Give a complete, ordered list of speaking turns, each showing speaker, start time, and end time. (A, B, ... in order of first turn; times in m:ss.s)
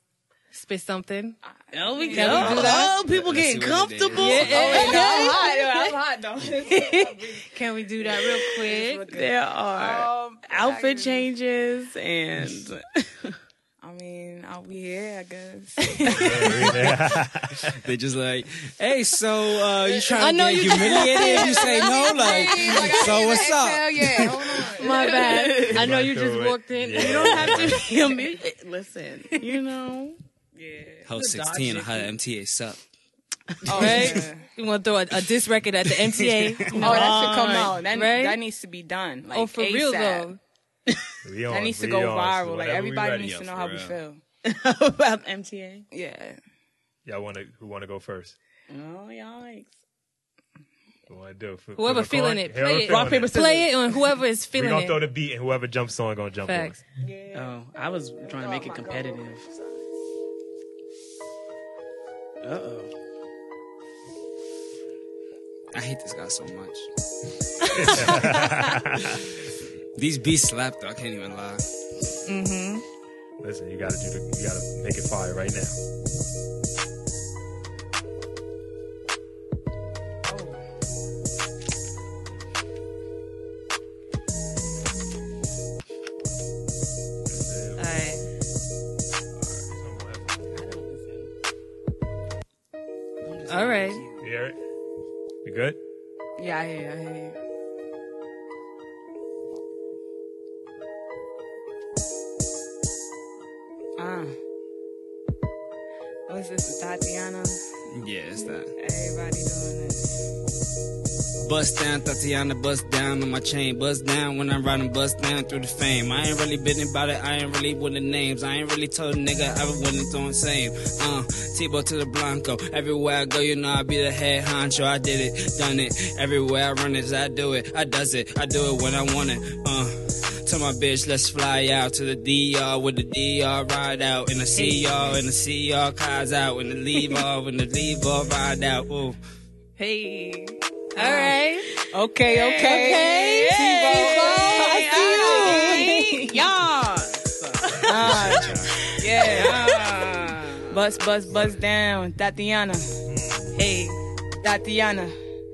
0:00.5-0:01.4 A
0:01.4-0:02.9 B
0:01.7-0:05.9 C
0:02.0-0:02.9 A
0:02.2-0:04.9 D
0:04.1-0:05.5 A
0:04.4-0:11.3 B
0:06.6-0:07.2 C
0:07.5-0:09.0 A
0:09.1-0:13.4 C
0:13.8-0:16.9 B
0:16.0-0:16.9 C
0:16.1-0:17.8 E
0:17.7-0:24.6 D
0:20.2-0:23.1 A
0:20.9-0:25.5 B
0:24.8-0:27.7 A
0:24.8-0:25.9 C
0:25.7-0:27.9 E
0:27.0-0:30.2 C
0:30.5-0:31.1 B
0:31.1-0:32.8 D
0:31.1-0:32.1 C
0:33.6-0:34.3 C
0:33.6-0:34.5 B
0:33.7-0:37.3 A
0:36.1-0:36.7 D
0:36.7-0:37.8 C
0:36.8-0:40.3 B
0:37.9-0:38.4 A
0:39.3-0:40.4 A
0:41.2-0:43.3 E
0:41.5-0:44.2 B
0:43.1-0:44.0 D
0:44.4-0:45.9 C
0:45.9-0:46.4 B
0:47.0-0:48.4 E
0:48.7-0:49.7 C
0:51.1-0:53.4 E
0:51.8-0:55.0 A
0:52.9-0:54.1 C
0:54.5-0:56.8 E
0:56.4-0:56.8 A
0:57.0-0:57.6 B
0:57.3-0:59.5 C
0:58.2-0:59.8 B
1:02.4-1:02.9 C
1:05.7-1:06.9 D
1:07.7-1:09.3 E
1:07.8-1:08.3 D
1:09.9-1:11.6 D
1:12.3-1:12.8 A
1:13.4-1:15.8 E
1:27.3-1:28.2 E
1:27.8-1:28.2 A
1:29.4-1:30.5 E
1:30.5-1:31.3 C
1:33.2-1:34.2 C
1:33.5-1:34.0 A
1:34.2-1:34.6 E
1:35.4-1:35.8 E
1:36.4-1:37.4 B
1:44.0-1:44.4 B
1:46.3-1:47.7 B
1:47.9-1:48.7 D
1:48.8-1:50.2 B
1:51.4-2:19.2 D
2:14.5-2:15.2 A
2:19.8-2:21.7 A
2:21.0-2:21.3 B
2:21.8-2:26.4 B
2:22.2-2:28.5 C
2:24.1-2:26.4 A
2:27.8-2:30.0 B
2:27.9-2:28.8 D
2:29.1-2:30.8 C
2:30.6-2:33.0 B
2:33.1-2:33.6 E
2:33.5-2:34.0 A
2:34.4-2:35.1 B